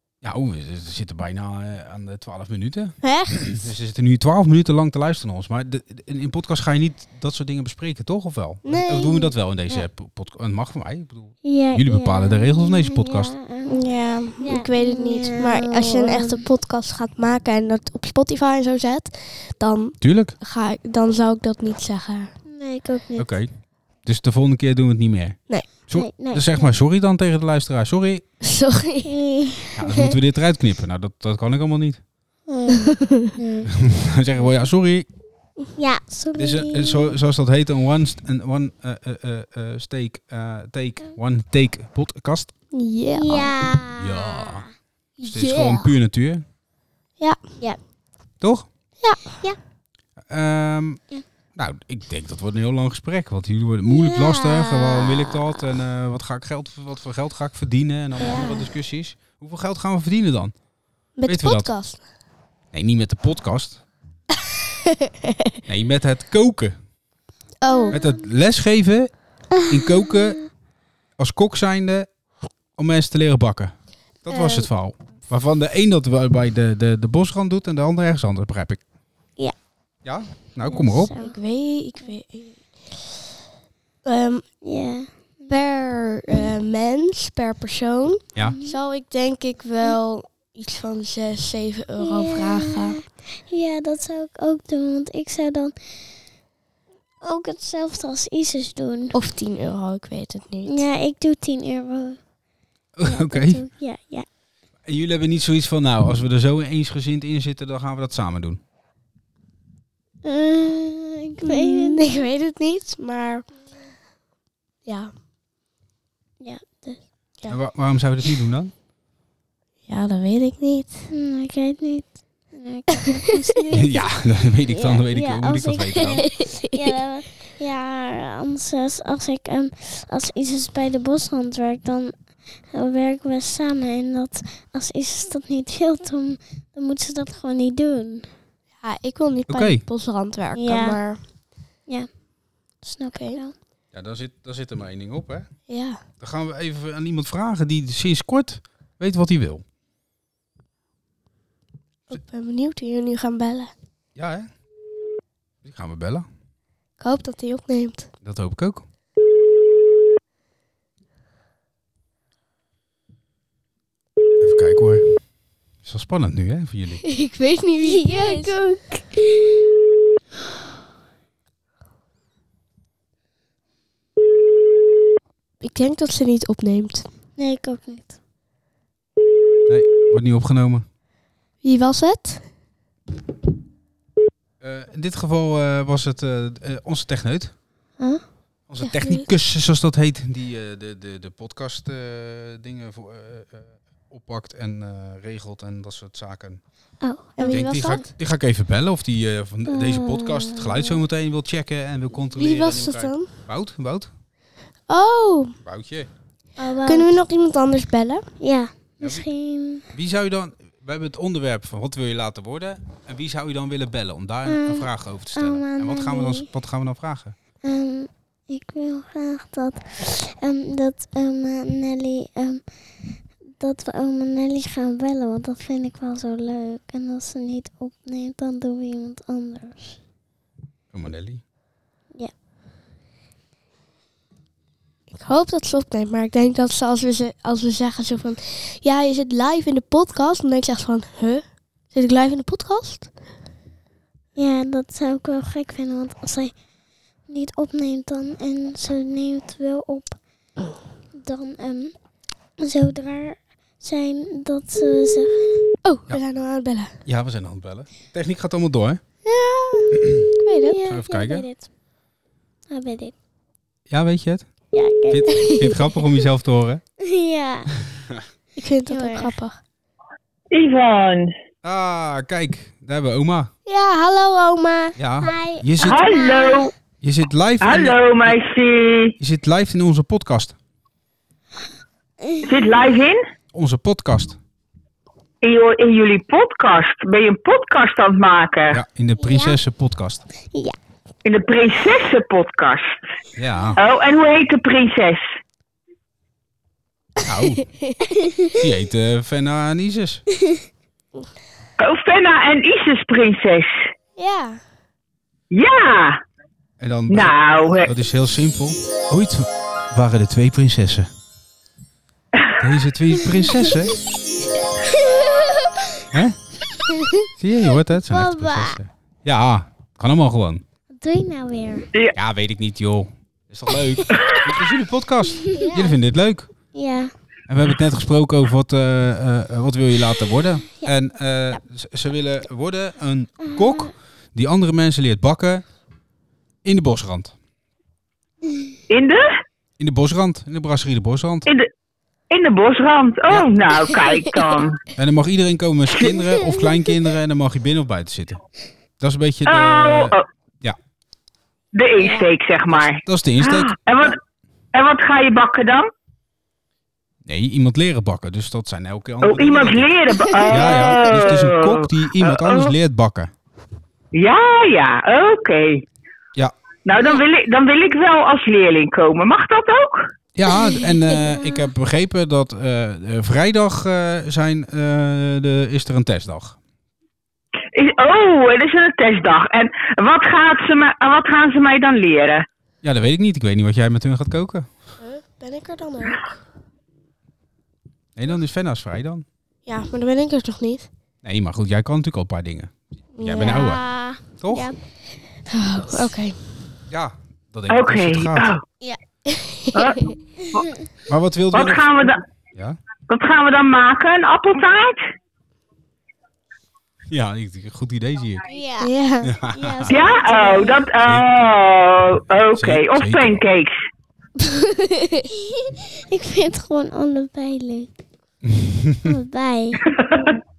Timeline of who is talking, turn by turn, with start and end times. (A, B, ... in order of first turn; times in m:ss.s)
0:00.2-0:13.3 A
0:03.0-0:03.6 B
0:08.6-0:09.3 B
0:11.4-0:13.9 C
0:13.7-0:22.3 B
0:14.4-0:16.4 C
0:20.0-0:20.4 A
0:22.5-0:23.3 C
0:23.2-0:28.2 A
0:25.9-0:26.7 C
0:28.4-0:29.1 B
0:29.0-0:29.8 C
0:29.8-0:32.0 A
0:29.9-0:30.2 B
0:32.5-0:33.7 C
0:32.8-0:33.3 B
0:33.7-0:35.1 A
0:35.8-0:37.2 C
0:36.4-0:42.5 A
0:42.7-0:43.7 B
0:43.1-0:44.6 C
0:44.0-0:44.7 A
0:45.2-0:45.9 B
0:45.2-0:46.4 A
0:48.4-0:48.7 A
0:49.0-0:49.4 B
0:50.3-0:51.0 A
0:51.6-1:00.6 A
0:53.9-0:55.4 C
0:58.2-0:58.7 B
1:01.2-1:02.0 B
1:01.3-1:01.7 A
1:02.7-1:03.8 A
1:04.9-1:05.5 B
1:05.7-1:06.8 A
1:07.6-1:08.0 B
1:07.7-1:08.2 C
1:07.9-1:10.5 A
1:09.7-1:10.4 C
1:11.2-1:12.1 A
1:12.8-1:18.8 A
1:14.3-1:14.7 B
1:20.0-1:21.1 A
1:20.7-1:21.4 C
1:21.2-1:22.8 B
1:24.0-1:24.5 B
1:24.6-1:25.5 C
1:25.5-1:33.0 B
1:28.4-1:28.8 C
1:32.0-1:35.8 C
1:37.2-1:39.2 C
1:39.1-1:40.8 B
1:40.6-1:42.2 C
1:43.0-1:43.6 A
1:43.1-1:44.3 C
1:44.8-1:48.6 A
1:50.2-1:52.2 C
1:51.4-1:53.5 B
1:54.8-1:55.1 B
1:56.4-1:57.0 C
1:57.5-1:58.7 A
1:59.9-2:01.1 B
2:01.1-2:18.3 C
2:03.7-2:06.3 A
2:06.1-2:07.0 B
2:18.8-2:21.2 B
2:19.5-2:19.8 A
2:20.6-2:21.0 C
2:22.8-2:23.6 C
2:23.1-2:23.4 B
2:23.9-2:25.5 A
2:25.7-2:26.0 B
2:26.2-2:29.6 A
2:32.1-2:33.7 B
2:34.2-2:34.5 A
2:35.6-2:36.3 A
2:37.0-2:38.1 B
2:38.2-2:38.9 A
2:44.4-2:45.2 A
2:45.8-2:47.0 A
2:47.0-2:48.6 B
2:47.9-2:49.3 C
2:55.6-2:57.1 B
2:57.4-2:58.2 C
2:59.7-3:00.9 A
3:01.6-3:02.4 B
3:04.6-3:07.6 A
3:08.0-3:08.2 C
3:08.7-3:16.6 A
3:08.8-3:09.3 B
3:17.0-3:18.0 C
3:17.4-3:18.1 B
3:17.4-3:24.1 A
3:19.7-3:21.0 C
3:22.4-3:23.3 B
3:24.9-3:25.6 B
3:25.6-3:26.1 A
3:26.6-3:27.1 C
3:26.8-3:28.2 B
3:28.4-3:29.8 C
3:29.0-3:29.3 A
3:29.9-3:37.4 A
3:34.5-3:36.5 C
3:37.6-3:42.6 C
3:43.6-3:50.0 C
3:50.9-3:51.4 A
3:55.1-4:03.1 B
4:04.4-4:06.6 C
4:07.3-4:10.2 C
4:11.2-4:12.0 C
4:12.6-4:15.6 C
4:15.8-4:16.9 B
4:17.0-4:19.0 A
4:19.2-4:20.8 B
4:20.0-4:20.2 A
4:20.6-4:21.7 C
4:20.9-4:21.5 A
4:22.7-4:23.1 C
4:23.9-4:24.5 A
4:24.7-4:25.7 C
4:25.1-4:26.8 A
4:25.3-4:25.6 B
4:27.0-4:27.7 C
4:28.6-4:29.6 B
4:28.9-4:29.3 C
4:30.5-4:31.3 D
4:31.6-4:33.5 A
4:33.7-4:35.0 B
4:35.0-4:36.0 A
4:35.2-4:36.7 C
4:35.8-4:36.7 D
4:37.0-4:38.4 A
4:37.6-4:39.1 D
4:39.2-4:40.6 A
4:42.2-4:42.5 C
4:42.4-4:43.2 D
4:43.5-4:44.4 A
4:45.4-4:48.8 D
4:48.7-4:50.2 A
4:49.2-4:49.6 C
4:50.5-4:50.8 C
4:51.2-4:53.0 D
4:53.4-4:53.8 A
4:53.8-4:55.2 D
4:57.2-4:57.7 A
4:57.8-4:58.2 B
4:58.2-4:58.5 C
4:58.6-5:00.2 A
5:01.8-5:03.9 D
5:04.2-5:04.6 B
5:05.5-5:06.2 D
5:06.8-5:11.1 A
5:07.1-5:07.9 D
5:12.6-5:14.0 A
5:16.1-5:16.4 A
5:16.9-5:17.2 B
5:17.3-5:20.6 A
5:18.1-5:18.8 C
5:21.0-5:21.9 C
5:22.2-5:26.5 A
5:25.5-5:25.7 C
5:25.6-5:25.9 B
5:26.7-5:27.1 C
5:27.5-5:35.7 A
5:33.5-5:33.9 C
5:36.6-5:37.4 A
5:38.9-5:39.3 D
5:39.8-5:41.5 A
5:42.3-5:44.8 D
5:45.0-5:48.4 A
5:49.0-5:50.8 A
5:49.5-5:50.2 D
5:51.7-5:54.2 D
5:52.7-5:53.8 A
5:54.7-5:55.9 D
5:57.3-5:59.9 A
5:59.2-6:02.7 D
6:00.3-6:00.8 B
6:00.5-6:03.3 A
6:04.1-6:05.8 D
6:06.9-6:10.1 D
6:10.4-6:16.6 A
6:17.7-6:22.5 D
6:22.8-6:24.7 A
6:25.0-6:26.3 B
6:28.2-6:29.2 A
6:29.7-6:30.9 B
6:31.2-6:34.7 A
6:33.2-6:33.8 B
6:33.4-6:34.8 C
6:35.5-6:36.4 B
6:36.9-6:38.5 A
6:37.7-6:38.6 D
6:38.8-6:40.1 B
6:39.7-6:40.7 D
6:41.1-6:41.9 A
6:41.5-6:42.2 D
6:43.1-6:45.0 D
6:47.1-6:48.5 A
6:48.5-6:48.9 C
6:48.8-6:49.4 B
6:49.2-6:50.0 A
6:49.5-6:50.8 C
6:49.9-6:53.8 D
6:50.2-6:50.6 B
6:52.6-6:53.4 A
6:54.4-6:55.3 B
6:55.3-6:57.9 C
6:58.4-6:59.2 A
6:59.0-6:59.8 C
6:59.9-7:00.4 D